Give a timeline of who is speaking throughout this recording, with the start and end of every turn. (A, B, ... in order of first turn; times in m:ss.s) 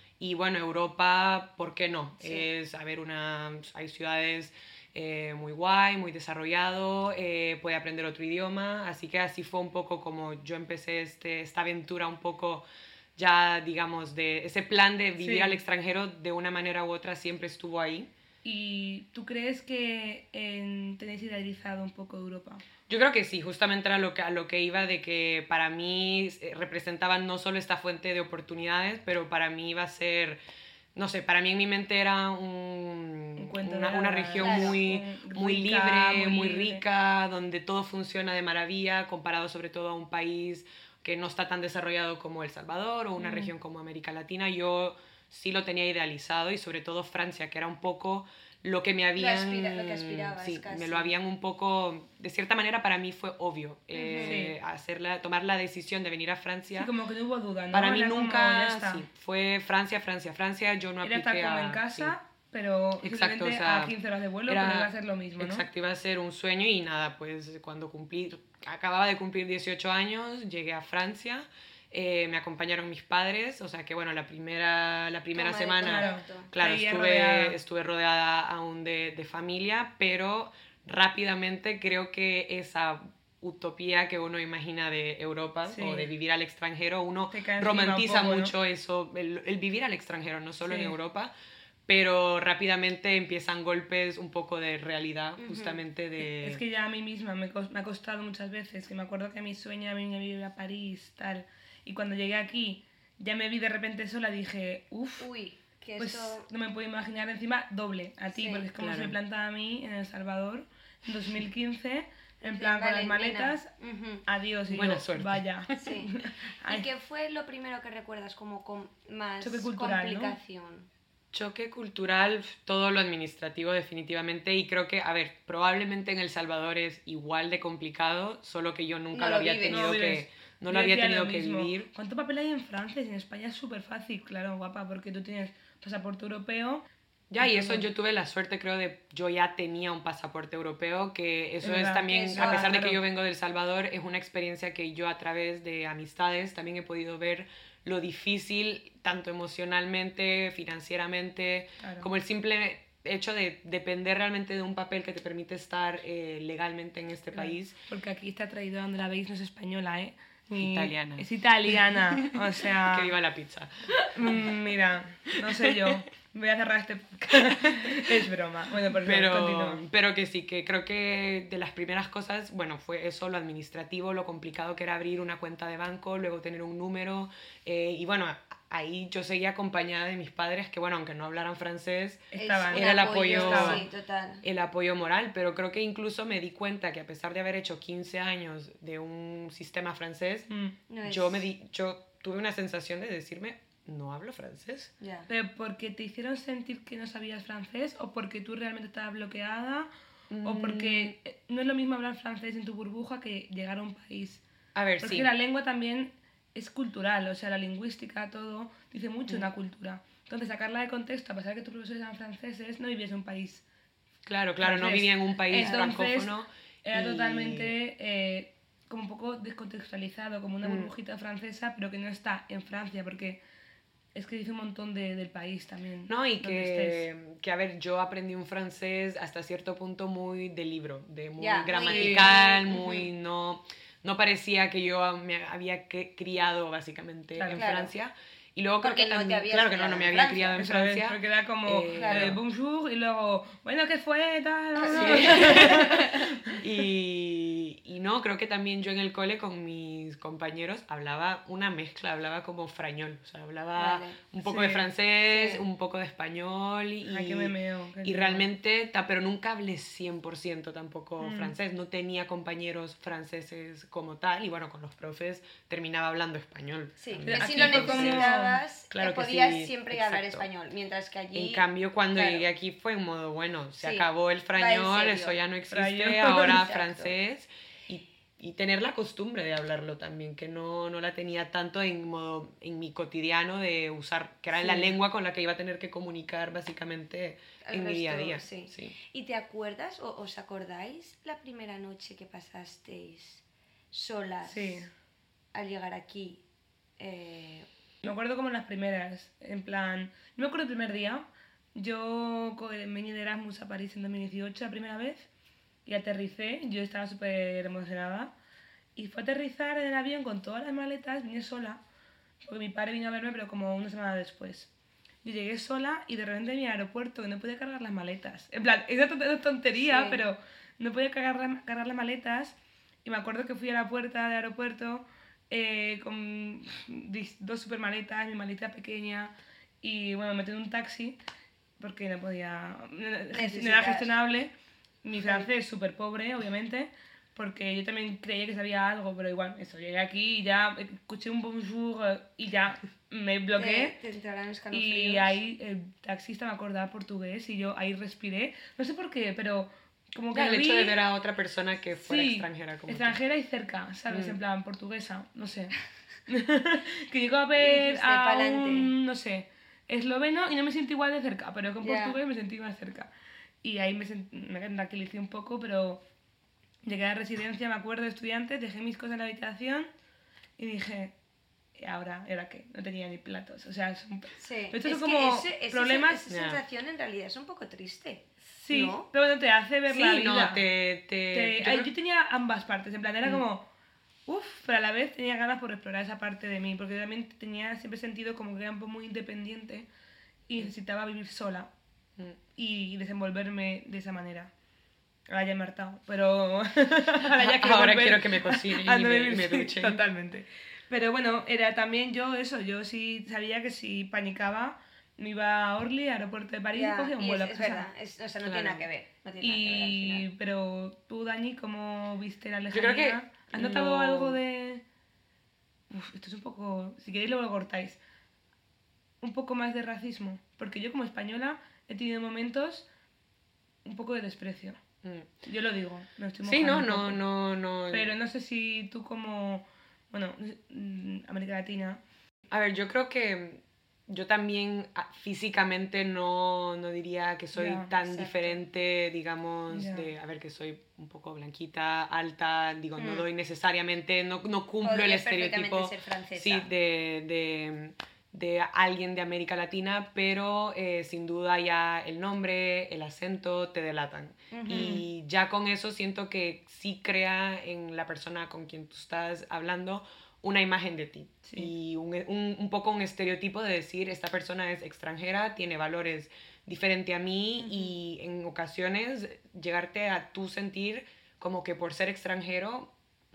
0:00.2-0:12.6 A
0:02.2-0:02.5 B
0:13.2-0:18.1 A
0:15.2-0:15.6 C
0:18.4-0:22.6 C
0:22.9-0:30.4 A
0:30.9-0:56.9 A
0:33.4-0:36.8 C
0:34.4-0:34.8 B
0:43.2-0:43.5 C
0:49.1-0:51.1 B
0:53.9-0:54.4 B
0:54.2-0:54.5 C
0:56.7-0:59.0 C
0:57.7-1:02.1 A
1:01.0-1:05.6 C
1:03.0-1:03.9 A
1:04.5-1:31.3 A
1:15.3-1:16.5 B
1:15.8-1:17.6 C
1:25.7-1:26.1 C
1:27.3-1:28.5 C
1:30.6-1:30.9 C
1:31.9-1:36.6 A
1:35.4-1:35.8 B
1:36.2-1:45.3 C
1:45.2-1:46.5 B
1:46.0-1:53.7 C
1:48.3-1:48.7 B
1:48.7-1:49.1 A
1:52.4-1:54.2 B
1:54.2-1:56.8 C
1:54.7-1:56.0 A
1:55.8-1:56.1 B
1:56.6-2:00.9 B
1:59.4-2:00.4 C
2:01.3-2:11.9 A
2:09.1-2:10.0 B
2:09.7-2:16.8 C
2:17.3-2:37.8 A
2:17.4-2:17.9 C
2:21.6-2:23.0 C
2:22.1-2:22.7 B
2:31.8-2:32.1 C
2:37.3-2:43.1 C
2:40.6-2:44.5 A
2:44.1-2:49.8 C
2:45.5-2:45.9 A
2:47.3-2:48.0 A
2:49.0-3:03.8 A
3:02.3-3:03.8 C
3:02.4-3:04.4 B
3:04.4-3:10.5 A
3:10.5-3:10.7 C
3:10.9-3:11.5 B
3:11.0-3:14.9 A
3:15.0-3:15.3 B
3:15.3-3:19.9 C
3:20.3-3:21.1 A
3:20.4-3:24.4 C
3:24.7-3:25.3 A
3:25.0-3:33.6 C
3:34.2-3:37.7 A
3:34.6-3:43.4 C
3:35.5-3:35.9 B
3:40.6-3:40.9 A
3:44.1-3:47.1 C
3:46.1-4:02.4 A
3:51.4-3:53.1 B
3:51.7-3:52.4 C
3:57.4-3:57.6 C
3:57.5-3:57.9 B
3:58.8-4:00.6 B
4:00.6-4:06.6 C
4:01.9-4:02.4 B
4:04.8-4:06.4 B
4:04.9-4:28.3 A
4:13.8-4:14.2 B
4:14.4-4:14.9 C
4:15.2-4:15.6 B
4:17.0-4:18.5 C
4:21.2-4:21.5 C
4:27.0-4:32.5 B
4:27.3-4:28.6 C
4:28.9-4:30.5 A
4:31.3-4:48.9 A
4:33.8-4:35.4 B
4:35.7-4:36.6 C
4:36.3-4:37.1 B
4:44.6-4:44.9 C
4:47.6-4:54.8 B
4:54.4-4:54.9 C
4:55.5-4:56.4 B
4:57.0-4:57.7 B
4:58.0-5:05.3 C
5:05.8-5:08.3 C
5:09.0-5:11.8 C
5:12.4-5:14.7 C
5:15.2-5:31.2 C
5:19.8-5:20.2 B
5:31.8-5:34.5 C
5:33.3-5:34.1 B
5:35.0-5:43.9 C
5:35.2-5:35.5 B
5:43.6-5:45.4 B
5:44.7-5:51.0 C
5:50.3-5:53.2 A
5:52.0-5:55.8 C
5:54.1-5:54.4 A
5:56.3-6:03.1 C
5:57.6-5:58.9 B
6:01.8-6:02.2 B
6:03.6-6:06.0 C
6:06.8-6:09.9 C
6:10.6-6:11.1 C
6:11.8-6:16.2 C
6:14.4-6:19.1 B
6:16.3-6:16.6 A
6:18.4-6:20.6 C
6:19.9-6:21.9 A
6:21.3-6:23.7 C
6:24.3-6:29.9 C
6:30.5-6:31.7 C
6:32.6-6:34.5 C
6:35.3-6:47.8 C
6:37.3-6:40.0 A
6:46.7-6:50.3 B
6:48.4-6:48.8 A
6:49.4-6:54.8 C
6:52.7-6:54.4 A
6:55.9-6:58.0 C
6:59.2-7:02.8 C
7:03.8-7:04.8 C
7:05.0-7:05.3 A
7:05.4-7:07.2 C
7:06.4-7:08.1 A
7:07.9-7:12.0 C
7:12.5-7:52.9 A
7:17.5-7:17.9 C
7:18.0-7:18.6 B
7:19.7-7:20.1 C
7:23.0-7:23.2 B
7:24.8-7:26.7 B
7:34.5-7:35.0 B
7:34.7-7:35.0 C
7:41.4-7:41.7 C
7:47.6-7:47.9 B